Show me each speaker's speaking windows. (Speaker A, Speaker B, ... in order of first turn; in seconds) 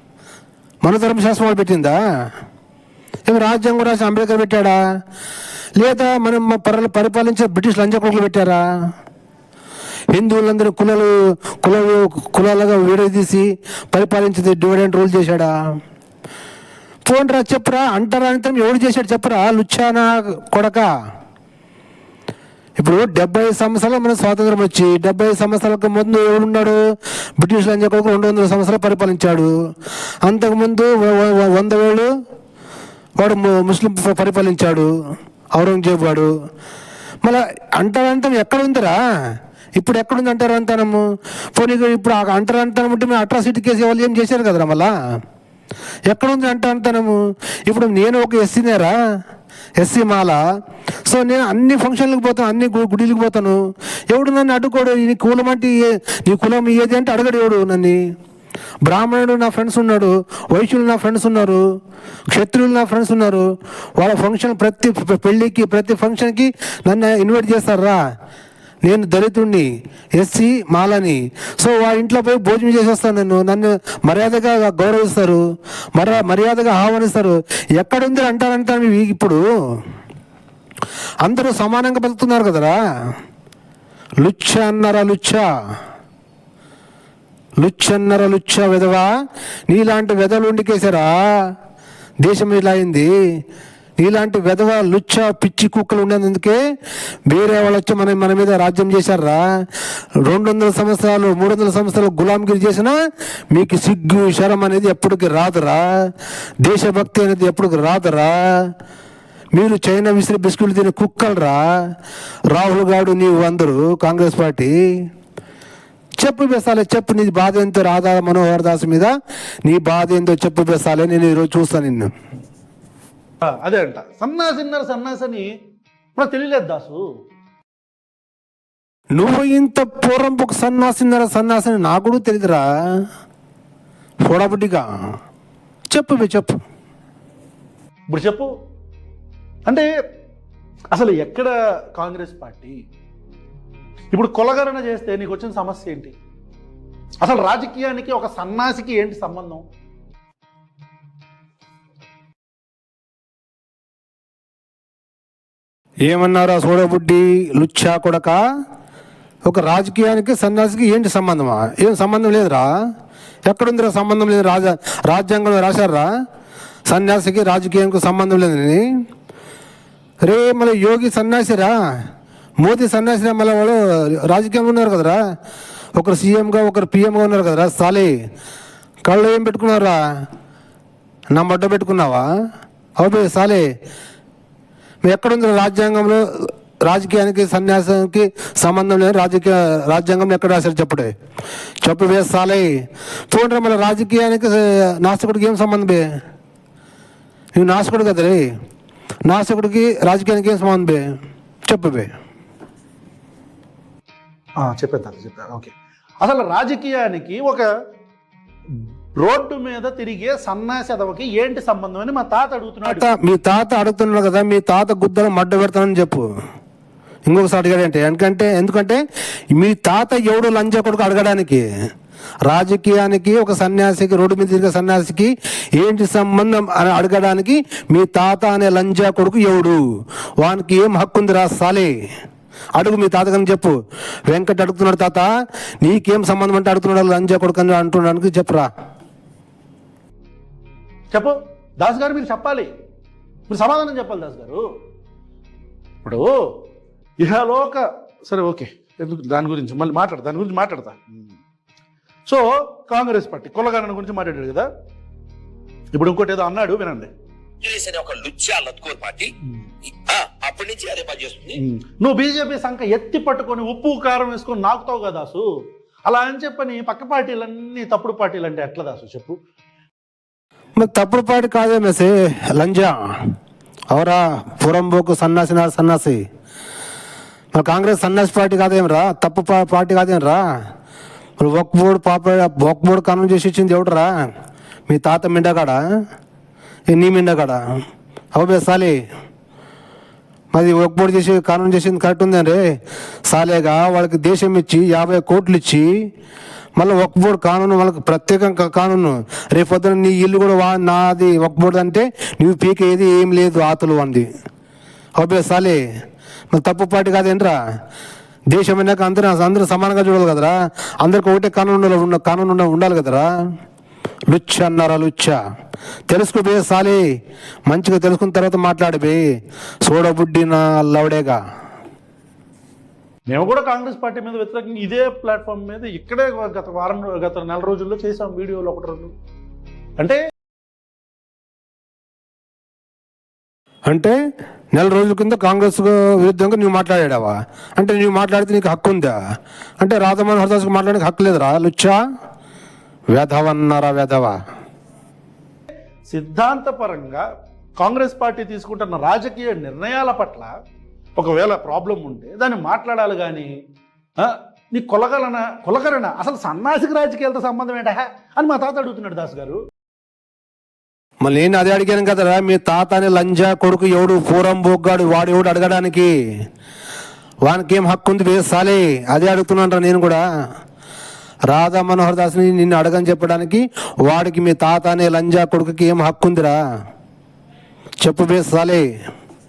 Speaker A: 0.8-2.0, 3.3-4.8, 5.8-8.6, 10.1-15.5, 17.1-20.9, 22.8-26.8, 27.4-29.5, 30.2-32.1, 33.2-34.9, 35.5-36.3, 37.2-39.0, 39.8-41.0, 41.5-44.9, 46.1-47.1, 47.7-48.9, 49.8-50.4, 51.0-53.6, 54.1-58.0, 58.8-61.6, 62.3-63.4, 64.0-68.0, 68.8-75.4, 76.0-79.4, 81.2-82.8, 84.2-85.4, 87.6-89.1, 89.7-91.5, 92.2-93.1, 94.0-96.6, 97.3-99.4, 100.2-102.9, 103.5-105.8, 106.6-108.3, 109.5-111.6, 112.5-114.7, 116.2-119.1, 119.6-122.1, 129.2-133.0, 134.2-134.9, 135.9-136.6, 156.1-158.4, 159.4-162.7, 163.5-166.1, 166.9-168.8, 170.2-171.7, 172.6-175.2, 175.9-178.1, 179.0-180.0, 181.3-182.2, 183.0-183.7, 185.0-186.2, 186.8-191.1, 191.8-192.7, 193.3-196.0, 197.5-198.4, 199.3-201.0, 201.7-202.1, 212.8-216.2, 217.3-219.0, 219.5-221.6, 222.4-229.8, 230.4-231.9, 232.8-233.8, 234.3-235.3, 235.8-238.7, 270.8-273.0, 273.9-276.2, 277.5-280.4, 281.4-284.1, 284.9-285.8, 286.9-287.6, 288.3-288.9, 290.5-292.6, 293.3-295.9, 296.8-304.2, 305.2-305.8, 306.5-307.5, 308.5-313.3, 314.3-315.4, 316.1-317.0, 317.7-319.2, 319.8-321.4, 333.9-334.1, 334.7-339.1, 339.8-342.0, 343.1-344.3, 361.2-366.1, 367.4-370.2, 371.5-376.6, 378.0-378.9
Speaker B: 123.6-125.5, 126.2-127.0, 138.1-138.5, 140.9-142.8, 144.1-146.1, 147.2-149.6, 204.6-205.7, 206.2-207.7, 208.7-213.1, 241.1-242.7, 243.5-244.6, 246.0-246.6, 247.2-251.3, 252.3-254.7, 255.9-257.1, 261.6-265.4, 266.1-269.4, 323.3-329.1, 346.1-347.2, 347.8-350.5, 351.1-353.5, 354.2-359.6
Speaker C: 257.6-259.3, 259.8-261.6